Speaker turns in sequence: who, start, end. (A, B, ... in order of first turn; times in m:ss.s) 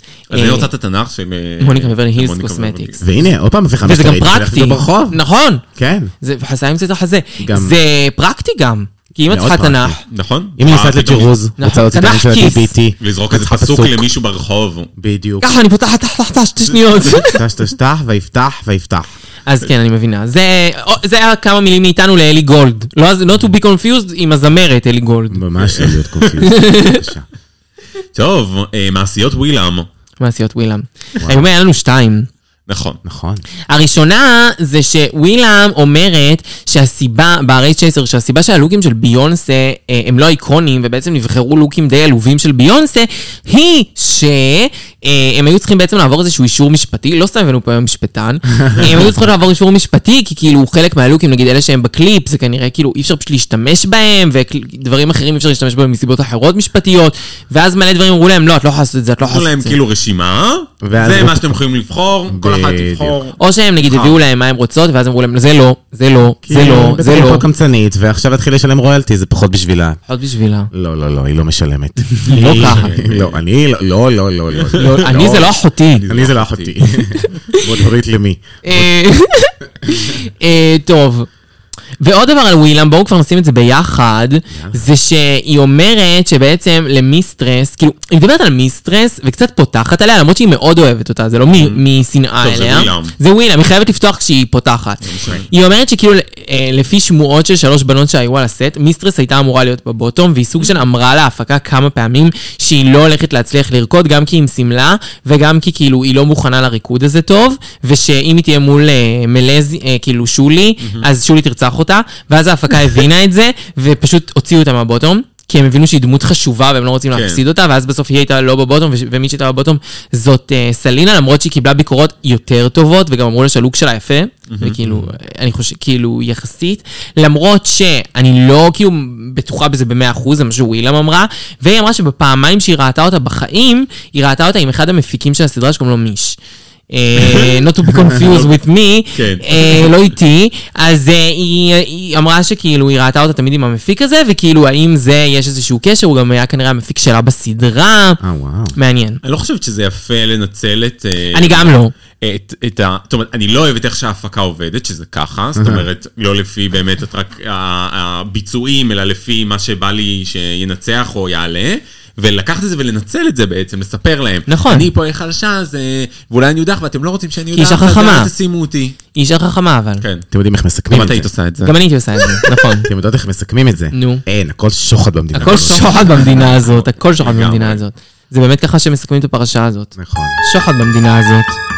0:00.3-0:00.7 A
0:00.3-0:03.1 B
0:01.6-0:03.0 A
0:03.0-0:05.2 C
0:03.8-0:05.6 A
0:05.8-0:06.1 C
0:06.2-0:10.0 A
0:07.4-0:07.8 C
0:09.3-0:10.0 C
0:10.1-0:11.3 B
0:10.6-0:14.1 C
0:11.6-0:12.7 A
0:13.0-0:14.9 B
0:15.0-0:15.5 C
0:15.4-0:17.4 A
0:17.1-0:19.1 C
0:19.5-0:25.4 A
0:25.3-0:27.2 C
0:25.6-0:26.5 B
0:26.4-0:27.1 A
0:28.2-0:29.9 B
0:30.2-0:32.3 A
0:31.2-0:31.5 C
0:32.7-0:33.0 B
0:33.0-0:33.4 C
0:33.7-0:59.8 A
0:59.2-1:04.2 B
1:00.8-1:01.6 C
1:02.3-1:03.2 C
1:03.4-1:07.4 A
1:06.4-1:10.0 C
1:10.1-1:10.7 A
1:10.7-1:15.5 C
1:12.1-1:12.9 A
1:12.3-1:13.4 B
1:14.5-1:15.5 B
1:14.8-1:16.0 A
1:16.0-1:16.8 B
1:16.1-1:18.9 C
1:17.2-1:17.6 A
1:18.6-1:21.3 A
1:22.0-2:16.4 A
1:24.5-1:24.8 C
1:31.5-1:31.8 B
1:32.4-1:33.2 B
1:35.0-1:35.5 B
1:50.8-1:51.1 B
1:57.1-1:57.4 B
2:04.5-2:04.8 B
2:16.9-2:28.2 A
2:17.2-2:18.5 B
2:19.1-2:20.0 B
2:28.2-2:28.8 C
2:28.8-2:29.2 A
2:29.2-2:49.0 B
2:31.3-2:31.9 A
2:35.6-2:35.9 C
2:44.5-2:44.9 A
2:47.5-2:48.3 A
2:49.1-2:50.0 A
2:50.0-2:50.3 B
2:50.3-2:51.3 C
2:50.9-2:51.8 B
2:51.6-2:52.9 A
2:52.9-2:56.3 C
2:53.9-2:54.2 A
2:55.3-3:01.6 A
2:55.4-2:57.8 B
3:00.0-3:00.4 C